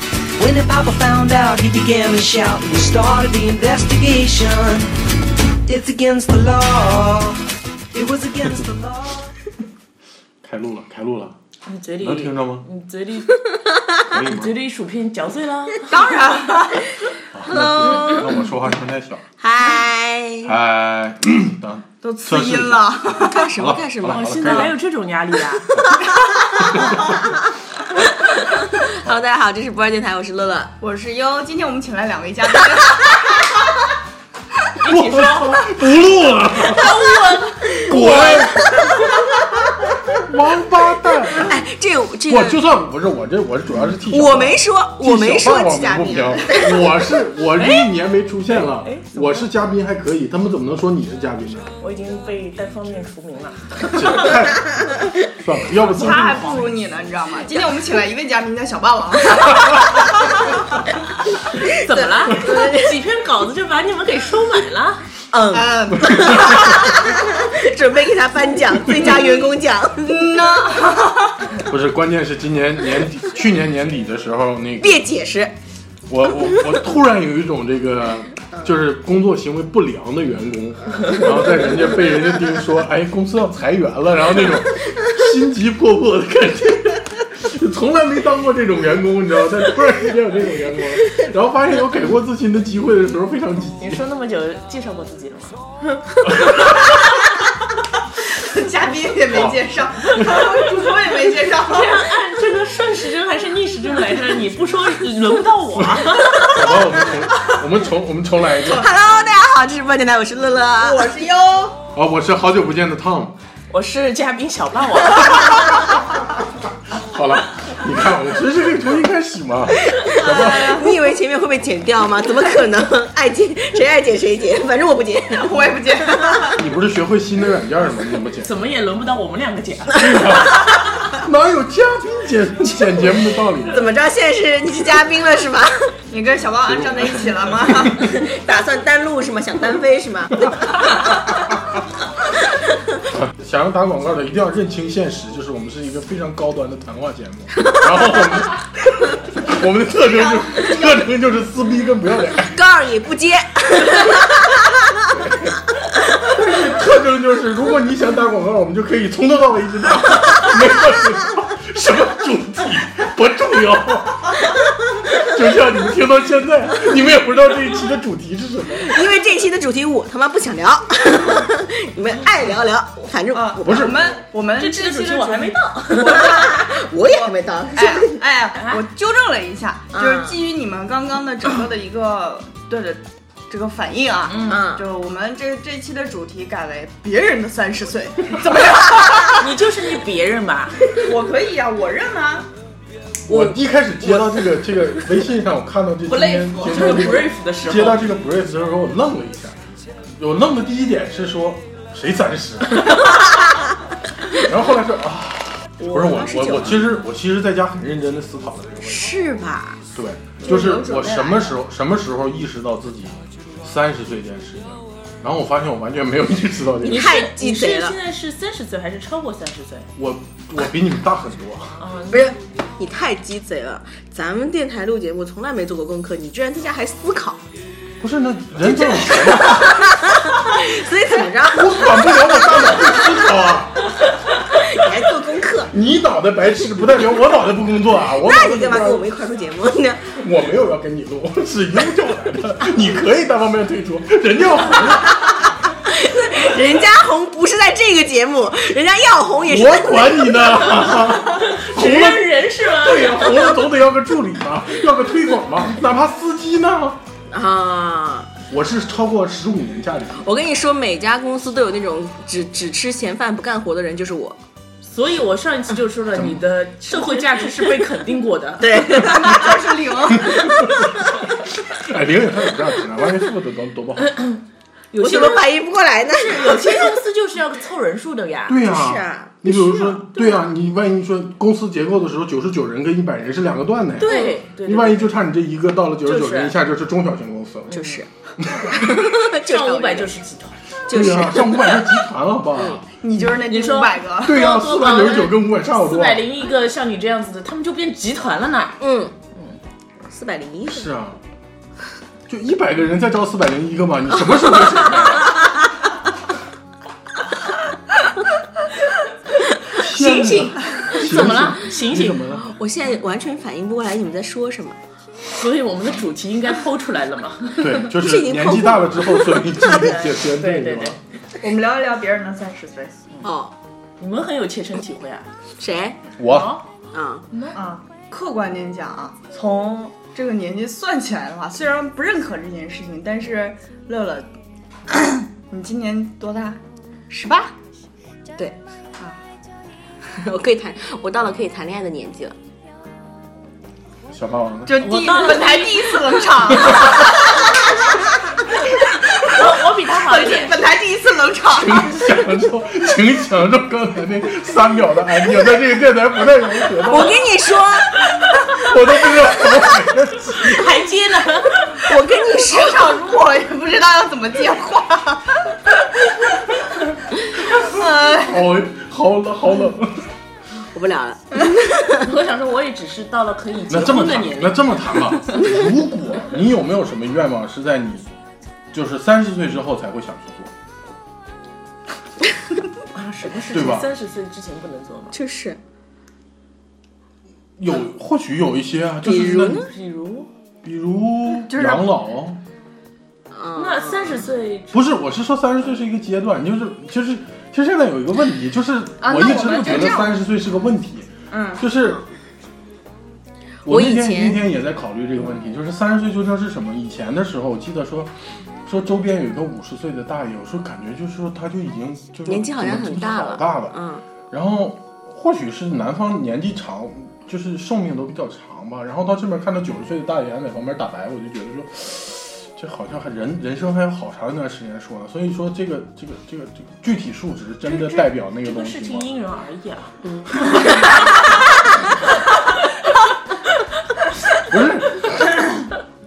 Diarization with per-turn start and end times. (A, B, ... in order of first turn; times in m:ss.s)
0:00.4-0:04.9 A
0:05.7-0:07.4 A
0:07.9-0:09.3 A
0:10.4-0:11.4 B
0:11.7-0:13.4 C
0:12.0-0:12.7 B
0:14.1-0:14.6 B
0:14.1-0:16.1 C
0:15.9-0:17.1 D
0:17.3-0:19.2 B
0:17.5-0:18.2 E
0:19.4-0:20.6 E
0:20.4-0:24.8 B
0:22.0-0:23.5 D
0:23.2-0:24.7 E
0:24.1-0:25.8 C
0:26.4-0:27.3 E
0:26.7-0:27.2 B
0:28.4-0:30.8 E
0:30.8-0:33.6 D
0:34.8-0:35.8 C
0:34.8-0:37.0 B
0:36.7-0:38.5 C
0:37.7-0:39.6 E
0:37.9-0:38.7 B
0:40.2-0:41.6 B
0:41.4-0:42.6 E
0:42.3-0:51.7 B
0:44.1-0:46.8 E
0:47.6-0:47.9 C
0:48.6-0:49.5 C
0:51.8-0:54.3 C
0:53.9-0:56.6 B
0:55.8-1:00.6 D
0:56.0-0:56.6 C
1:01.6-1:03.0 E
1:01.7-1:05.0 C
1:05.3-1:10.3 E
1:05.5-1:07.1 D
1:06.1-1:06.6 B
1:08.9-1:11.6 D
1:11.6-1:15.0 B
1:14.8-1:15.6 E
1:16.1-1:34.0 B
1:33.8-1:36.0 C
1:36.3-1:36.9 B
1:38.3-1:42.1 D
1:39.3-1:39.6 B
1:40.1-1:40.4 B
1:41.5-1:46.6 C
1:45.8-1:48.9 B
1:48.6-1:51.1 E
1:50.8-1:51.8 D
1:51.9-1:53.4 B
1:53.7-1:55.9 C
1:56.9-2:00.7 B
1:59.9-2:06.5 E
2:00.1-2:01.0 D
2:05.4-2:06.6 D
2:06.6-2:08.5 B
2:08.4-2:10.3 C
2:10.0-2:13.9 B
2:13.6-2:16.0 E
2:16.1-2:18.1 D
2:16.6-2:18.1 B
2:18.0-2:21.4 E
2:20.5-2:21.6 B
2:23.1-2:32.6 B
2:27.6-2:28.4 E
2:32.5-2:35.0 E
2:35.1-2:35.5 B
2:36.2-2:48.9 B
2:48.8-2:54.0 E
2:53.3-3:09.5 D
2:53.6-2:54.1 B
2:54.6-2:56.3 C
2:55.9-2:58.2 E
2:58.6-2:58.8 C
2:59.9-3:00.4 E
3:04.3-3:04.6 C
3:04.4-3:04.9 E
3:08.9-3:11.0 C
3:11.0-3:12.5 D
3:13.3-3:19.6 B
3:13.3-3:13.6 E
3:16.1-3:18.1 C
3:20.2-3:23.2 B
3:24.3-3:29.2 B
3:25.9-3:26.9 E
3:28.8-3:29.8 E
3:29.9-3:37.1 B
3:30.4-3:31.5 D
3:36.8-3:39.9 C
3:36.8-3:38.0 E
3:40.0-3:41.8 B
3:41.8-3:42.3 C
3:42.1-3:47.4 E
3:48.0-3:50.0 B
3:48.7-3:53.2 E
3:51.4-3:53.8 B
3:54.6-3:55.7 E
3:55.7-3:59.1 B
3:58.2-4:00.1 E
4:00.1-4:05.5 B
4:05.9-4:10.7 E
4:09.4-4:17.0 B
4:11.4-4:13.7 C
4:17.3-4:18.3 E
4:18.5-4:20.2 B
4:20.2-4:24.4 E
4:24.8-4:28.9 C
4:26.1-4:26.4 B
4:28.6-4:29.7 E
4:28.9-4:30.5 D
4:30.3-4:31.0 E
4:30.3-4:34.2 B
4:34.0-4:34.4 C
4:34.9-4:35.5 C
4:35.0-4:36.9 E
4:36.1-4:38.6 C
4:38.5-4:48.7 B
4:38.6-4:39.4 E
4:39.4-4:40.4 C
4:44.0-4:44.3 E
4:44.0-4:45.1 C
4:46.1-4:46.6 C
4:47.7-4:48.1 E
4:47.8-4:50.6 C
4:48.7-4:50.1 E
4:50.9-4:52.0 E
4:50.9-4:52.9 B
4:52.6-4:52.8 E
4:53.0-4:54.5 D
4:53.3-4:58.8 C
4:54.2-4:56.3 B
4:58.8-4:59.2 E
4:59.3-4:59.6 C
5:00.0-5:00.9 E
5:00.7-5:01.2 B
5:02.3-5:05.4 B
5:04.6-5:05.5 E
5:09.7-5:12.3 C
5:09.7-5:12.5 B
5:12.4-5:14.8 E
5:15.3-5:17.9 C
5:17.6-5:21.0 B
5:17.9-5:19.8 E
5:19.7-5:21.0 C
5:21.4-5:23.0 D
5:23.2-5:23.5 E
5:24.0-5:25.3 C
5:25.6-5:26.0 E
5:26.2-5:26.6 B
5:26.2-5:26.7 C
5:26.9-5:27.2 E
5:27.3-5:27.6 C
5:27.6-5:34.3 D
5:34.9-5:37.6 D
5:40.1-5:42.4 E
5:44.1-5:45.0 B
5:44.7-5:47.8 D
5:44.8-5:46.7 C
5:46.7-5:47.0 B
5:48.9-5:52.0 D
5:49.2-5:50.6 C
5:51.5-5:57.2 B
5:56.9-5:58.0 E
5:58.6-6:00.8 B
6:00.4-6:01.8 C
6:01.8-6:03.0 E
6:02.2-6:05.6 D
6:07.6-6:10.1 B
6:07.6-6:08.4 D
6:10.7-6:12.1 E
6:11.9-6:15.0 C
6:13.7-6:18.1 B
6:18.7-6:20.5 B
6:22.9-6:25.1 C
6:23.5-6:23.9 B
6:25.1-6:25.6 E
6:27.6-6:29.7 B
6:29.0-6:29.7 E
6:29.4-6:30.3 C
6:30.6-6:32.4 B
6:31.5-6:31.9 D
6:33.3-6:34.3 E
6:33.6-6:34.9 C
6:34.7-6:42.0 B
6:39.0-6:40.2 D
6:41.3-6:41.7 D
6:43.6-6:53.8 B
6:43.7-6:44.4 E
6:52.3-6:54.0 E
6:54.3-7:09.1 B
7:07.7-7:11.7 C
7:10.0-7:11.0 E
7:14.4-7:15.5 B